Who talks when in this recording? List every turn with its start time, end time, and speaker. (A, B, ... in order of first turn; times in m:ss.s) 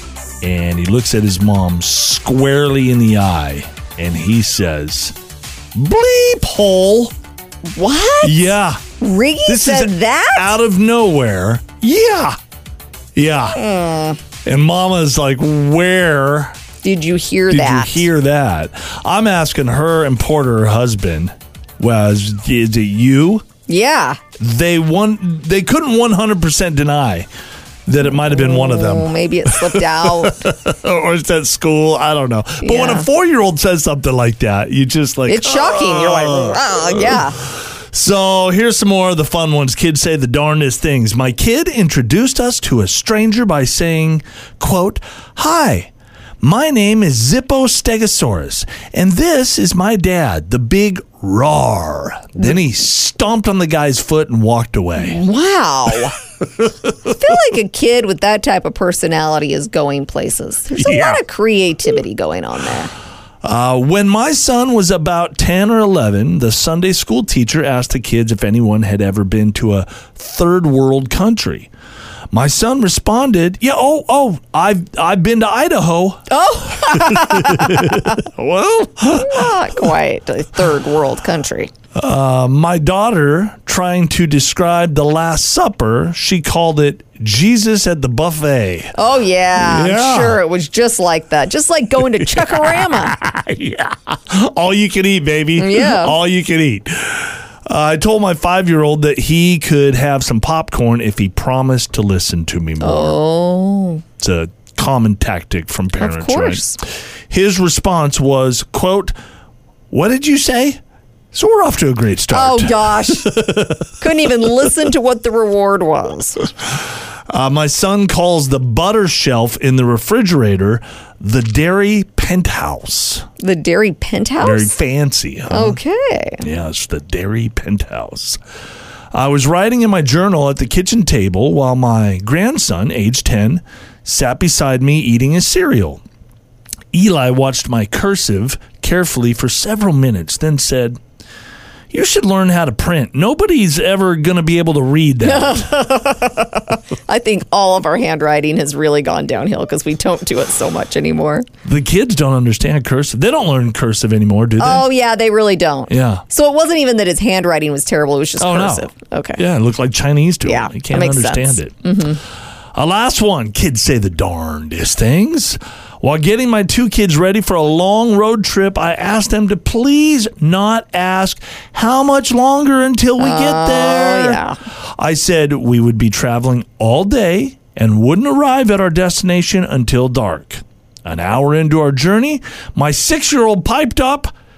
0:00.4-0:05.2 A
0:05.7-0:07.1 A
0:07.7-0:10.6 B
0:08.2-0:08.8 A
0:09.5-0:12.4 A
0:13.2-0:13.6 A
0:13.5-0:14.2 B
0:14.4-0:16.6 A
0:16.8-0:18.1 B
0:17.5-0:23.4 A
0:23.7-0:24.2 B
0:24.4-0:27.3 A
0:27.9-0:55.2 A
0:28.1-0:30.5 B
0:32.6-0:33.1 B
0:35.3-0:37.4 B
0:55.0-0:56.2 B
0:56.6-0:57.1 A
0:57.0-1:02.9 B
1:00.8-1:01.2 A
1:03.4-1:11.7 A
1:12.3-1:19.8 A
1:16.3-1:18.2 B
1:19.1-1:21.7 B
1:21.9-1:29.0 A
1:29.0-1:33.2 B
1:29.6-1:30.4 A
1:32.2-1:43.2 A
1:35.6-1:36.2 B
1:42.8-1:44.0 B
1:44.2-1:49.2 A
1:46.0-1:46.8 B
1:49.9-1:50.8 A
1:51.3-1:54.4 A
1:52.3-1:53.4 B
1:54.0-1:56.5 B
1:57.3-2:03.3 A
2:03.4-2:04.7 B
2:04.4-2:05.8 A
2:05.5-2:06.4 B
2:06.4-2:08.4 A
2:09.1-2:16.0 A
2:16.9-2:21.0 A
2:21.9-2:25.8 A
2:25.2-2:31.5 B
2:31.6-2:34.9 A
2:34.6-2:39.4 B
2:35.9-2:36.2 A
2:38.4-2:41.8 A
2:40.4-2:42.2 B
2:42.7-3:04.3 A
2:53.2-2:54.6 B